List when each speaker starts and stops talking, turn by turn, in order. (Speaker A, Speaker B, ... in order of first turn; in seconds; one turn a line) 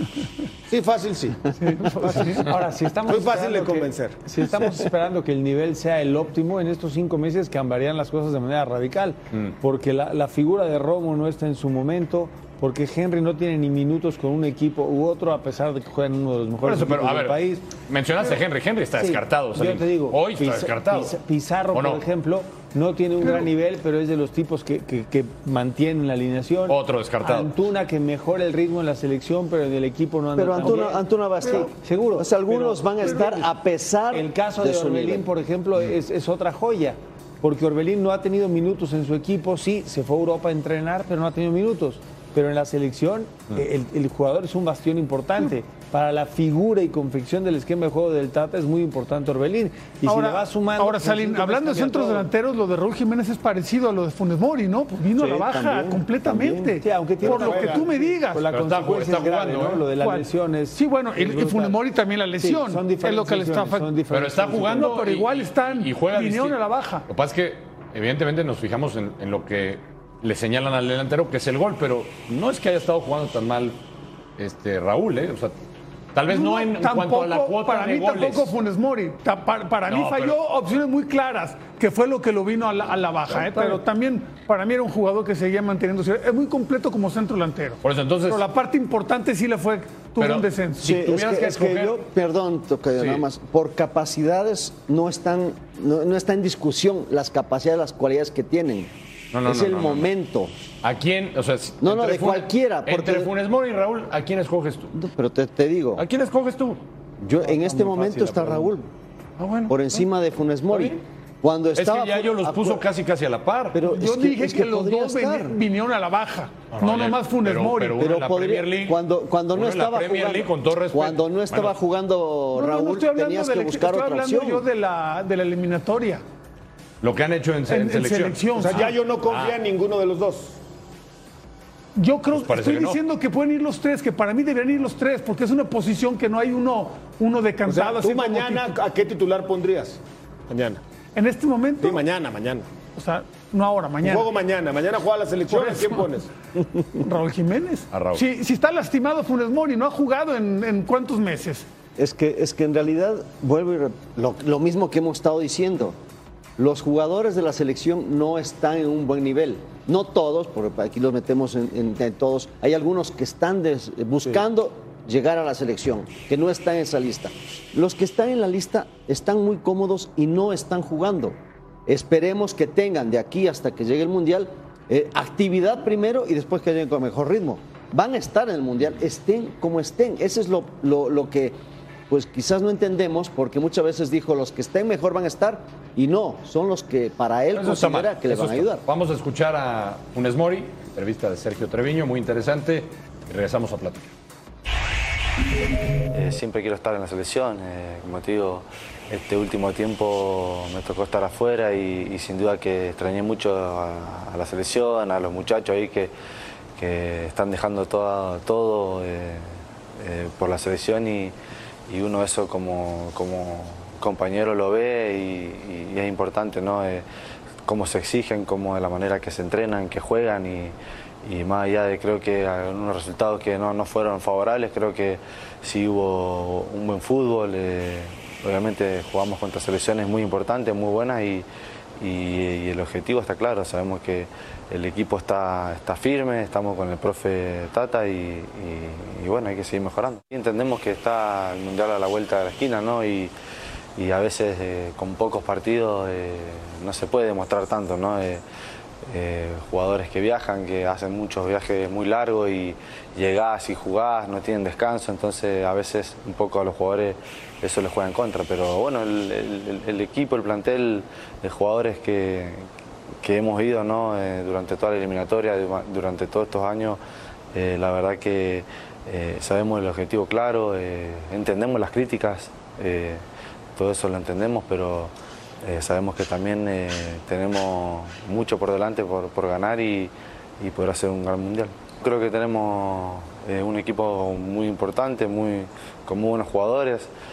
Speaker A: 0.7-1.5
Speaker B: 1.5-2.5
Speaker C: 1.8-17.6
Speaker A: 3.0-4.2
Speaker D: 16.6-21.1
Speaker C: 19.0-33.5
Speaker D: 21.7-22.0
Speaker D: 26.7-27.5
Speaker E: 30.4-35.3
Speaker C: 34.1-52.3
Speaker B: 50.0-58.5
Speaker C: 55.2-61.8
Speaker A: 57.2-57.9
Speaker D: 58.5-59.9
Speaker B: 59.9-63.9
Speaker C: 62.4-65.0
Speaker D: 64.1-73.8
Speaker B: 64.7-67.0
Speaker D: 74.4-75.5
Speaker D: 76.1-78.5
Speaker B: 76.3-91.0
Speaker D: 79.9-80.4
Speaker C: 83.5-83.8
Speaker D: 87.8-88.5
Speaker D: 90.2-92.0
Speaker E: 90.8-98.9
Speaker D: 93.0-93.2
Speaker D: 99.3-100.1
Speaker E: 99.4-100.5
Speaker D: 100.8-104.9
Speaker E: 101.8-103.3
Speaker E: 104.9-106.0
Speaker D: 106.0-106.8
Speaker E: 107.2-108.9
Speaker C: 107.4-108.7
Speaker E: 109.7-112.8
Speaker D: 111.7-113.8
Speaker E: 113.7-115.5
Speaker B: 113.8-118.1
Speaker D: 116.7-119.0
Speaker E: 118.0-124.6
Speaker D: 119.5-121.8
Speaker B: 122.5-126.2
Speaker D: 127.0-129.6
Speaker B: 127.7-128.9
Speaker A: 128.6-130.6
Speaker B: 131.9-138.8
Speaker D: 132.3-133.0
Speaker A: 137.6-140.8
Speaker B: 141.1-142.0
Speaker A: 141.8-142.7
Speaker B: 142.9-144.3
Speaker A: 144.0-146.3
Speaker B: 145.5-146.1
Speaker B: 146.9-151.7
Speaker D: 147.9-148.2
Speaker E: 151.9-156.0
Speaker E: 156.6-181.6
Speaker E: 182.1-188.8
Speaker D: 187.5-194.1
Speaker F: 196.1-206.1
Speaker F: 206.8-211.3
Speaker F: 211.9-217.0
Speaker F: 217.6-231.4
Speaker F: 232.0-243.3
Speaker F: 243.9-248.4
Speaker F: 249.0-262.7
Speaker F: 263.2-267.0
Speaker F: 267.5-273.2
Speaker F: 273.7-287.1